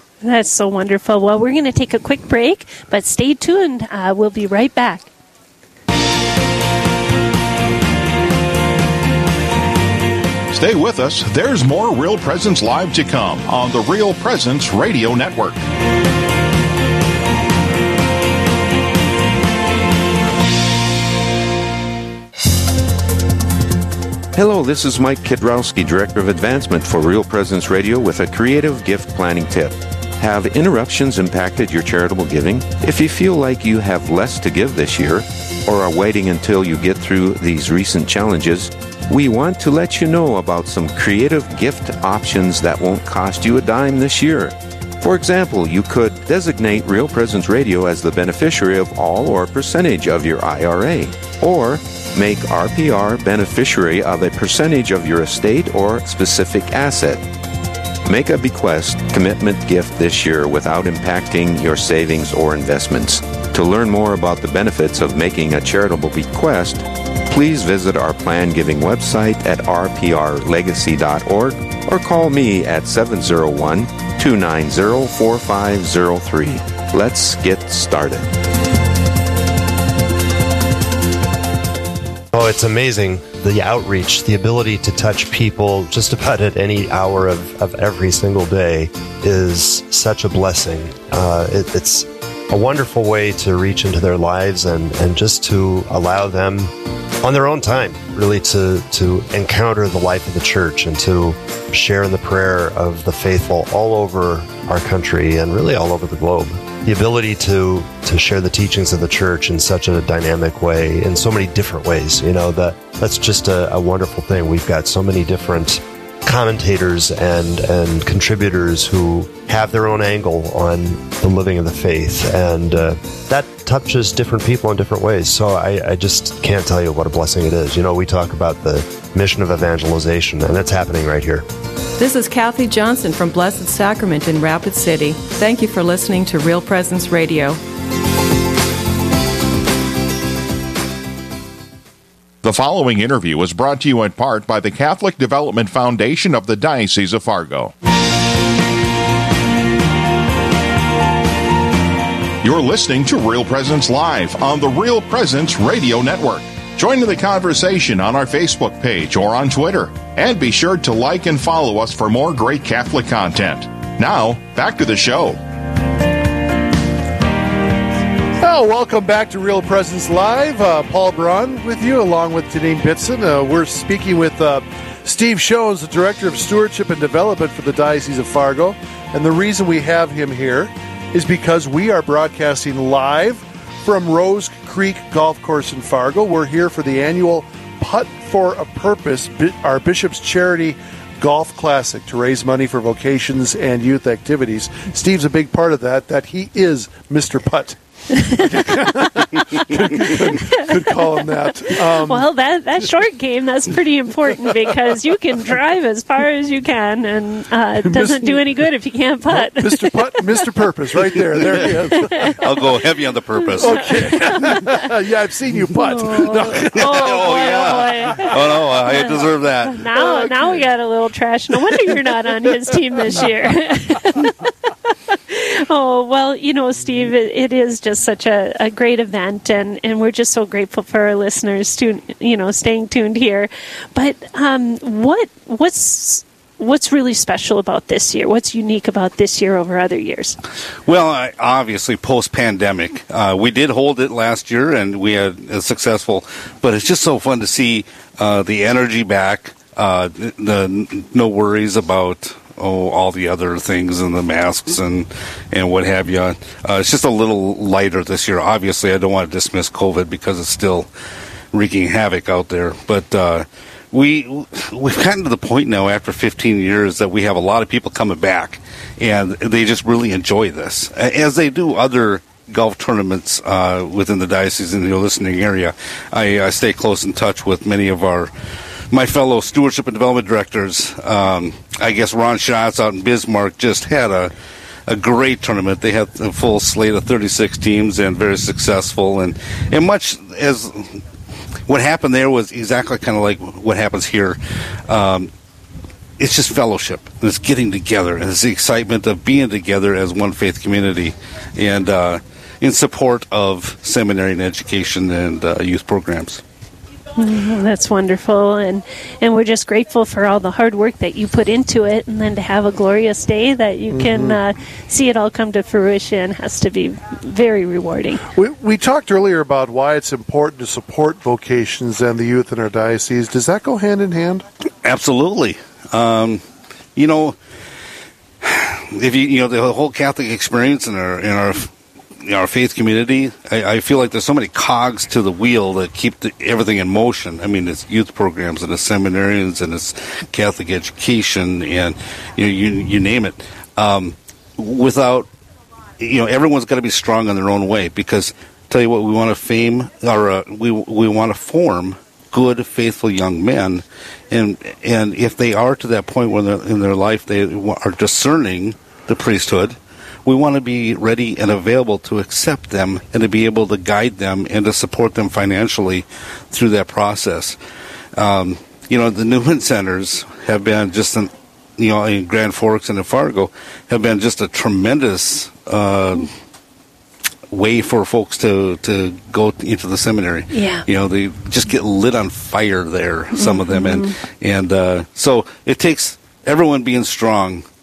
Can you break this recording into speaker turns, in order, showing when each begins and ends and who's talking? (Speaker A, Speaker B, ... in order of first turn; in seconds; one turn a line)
Speaker A: 0.2-5.1
Speaker B: 10.5-15.6
Speaker C: 24.3-57.2
Speaker C: 58.0-78.3
Speaker D: 82.3-131.4
Speaker E: 132.0-137.6
Speaker B: 142.4-147.7
Speaker B: 152.4-165.4
Speaker F: 168.4-202.3
Speaker A: 198.2-198.7
Speaker A: 199.7-200.9
Speaker A: 201.7-210.4
Speaker F: 207.8-208.5
Speaker F: 209.3-212.4
Speaker G: 211.6-214.3
Speaker A: 211.6-212.5
Speaker A: 213.4-214.9
Speaker F: 213.6-218.3
Speaker A: 215.8-240.4
Speaker G: 216.7-219.8
Speaker F: 219.9-220.6
Speaker G: 240.8-260.9
Speaker G: 261.5-278.3
Speaker G: 278.9-284.3
Speaker G: 284.9-291.0
Speaker G: 291.7-295.3
Speaker G: 296.2-306.4
Speaker A: 307.2-318.3
Speaker F: 313.9-314.4
Speaker F: 318.3-324.4
Speaker G: 324.8-326.4
Speaker G: 326.9-327.4
Speaker G: 328.4-331.7
Speaker G: 332.2-345.3
Speaker G: 346.0-367.6
Speaker G: 368.1-376.3
Speaker G: 377.5-387.6
Speaker A: 380.5-380.8
Speaker A: 383.3-384.1